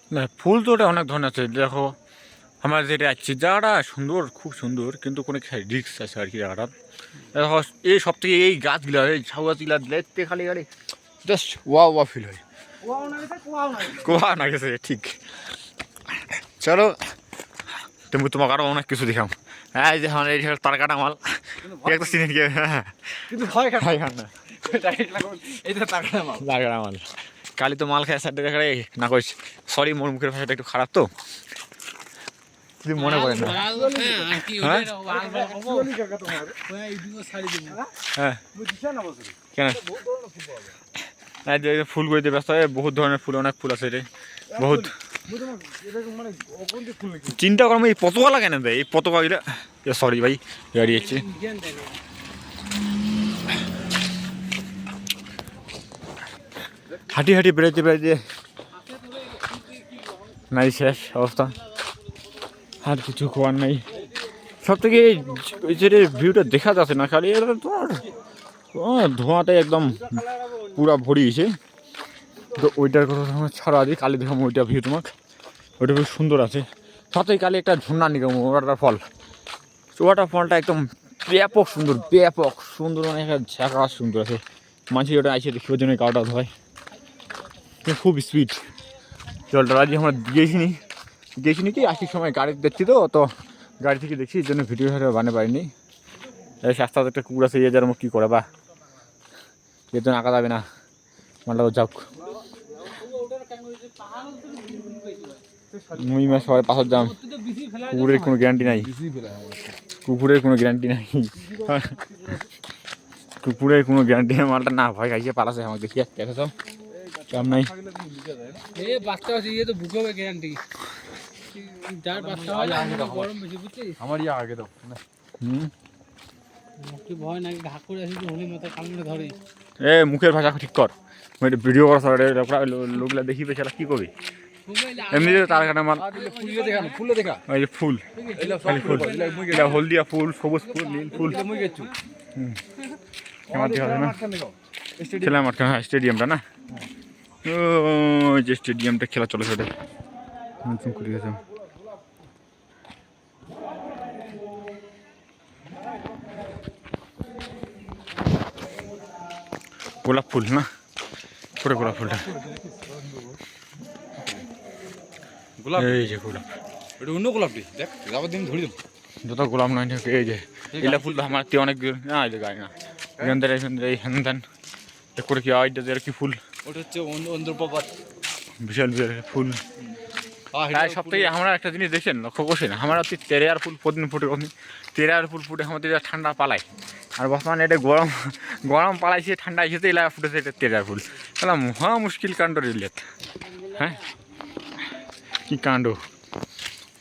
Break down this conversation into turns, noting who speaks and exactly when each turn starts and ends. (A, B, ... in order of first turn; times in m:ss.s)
0:00.1-0:01.9 A
0:02.6-0:06.7 A
0:07.3-0:10.7 A
0:11.2-0:12.4 A
0:12.8-0:14.0 B
0:13.8-0:15.2 A
0:16.1-0:17.0 A
0:18.1-0:23.0 A
0:21.6-0:22.2 B
0:23.3-0:24.0 B
0:23.6-0:24.3 A
0:24.5-0:26.4 B
0:26.4-0:31.1 A
0:32.8-0:33.7 A
0:32.9-0:36.0 C
0:33.6-0:34.4 B
0:34.5-0:34.9 A
0:35.0-0:36.6 B
0:36.6-0:37.9 C
0:38.1-0:38.4 A
0:38.5-0:40.8 B
0:39.6-0:39.8 A
0:41.4-0:44.9 A
0:44.5-0:47.4 B
0:47.3-0:51.3 A
0:50.9-0:52.0 C
0:57.1-0:58.2 A
0:59.1-0:59.4 C
1:00.5-1:01.6 A
1:02.8-1:03.8 A
1:04.6-1:08.1 A
1:08.7-1:11.5 A
1:12.5-1:15.1 A
1:15.8-1:19.0 A
1:19.9-1:26.5 A
1:27.8-1:28.6 A
1:29.5-1:30.8 A
1:31.4-1:33.3 A
1:33.8-1:35.7 A
1:36.6-1:38.4 A
1:39.9-1:40.6 A
1:41.4-1:42.0 A
1:42.8-1:45.4 C
1:45.7-1:46.2 B
1:45.9-1:47.2 A
1:46.9-1:48.4 C
1:47.8-1:48.9 A
1:48.6-1:49.7 B
1:50.0-1:52.0 A
1:51.4-1:52.4 B
1:53.4-1:56.5 A
1:56.9-1:58.7 B
1:57.3-1:57.7 A
1:58.7-2:00.6 C
2:01.5-2:04.0 C
2:02.1-2:03.4 B
2:04.0-2:05.0 B
2:05.4-2:05.7 A
2:06.8-2:09.4 C
2:09.8-2:14.1 A
2:14.6-2:17.0 C
2:15.1-2:16.1 A
2:15.9-2:17.4 B
2:17.5-2:18.0 A
2:18.2-2:19.8 C
2:18.3-2:19.8 B
2:18.6-2:21.4 A
2:20.7-2:21.8 C
2:21.1-2:21.9 B
2:22.3-2:22.6 A
2:23.5-2:25.4 B
2:23.5-2:24.2 A
2:25.1-2:26.4 A
2:27.4-2:29.7 A
2:30.6-2:31.4 A
2:40.0-2:40.7 A
2:41.6-2:42.3 A
2:41.7-2:43.4 B
2:44.2-2:44.4 B
2:45.6-2:46.1 B
2:45.8-2:46.4 A
2:47.0-2:48.8 B
2:49.2-2:54.4 A
2:50.7-2:51.4 B
2:55.2-2:56.4 A
2:56.6-2:57.9 B
2:58.6-2:59.6 A
3:00.5-3:01.3 B
3:00.7-3:06.6 A
3:07.2-3:13.0 A
3:13.7-3:14.0 A
3:15.5-3:16.0 A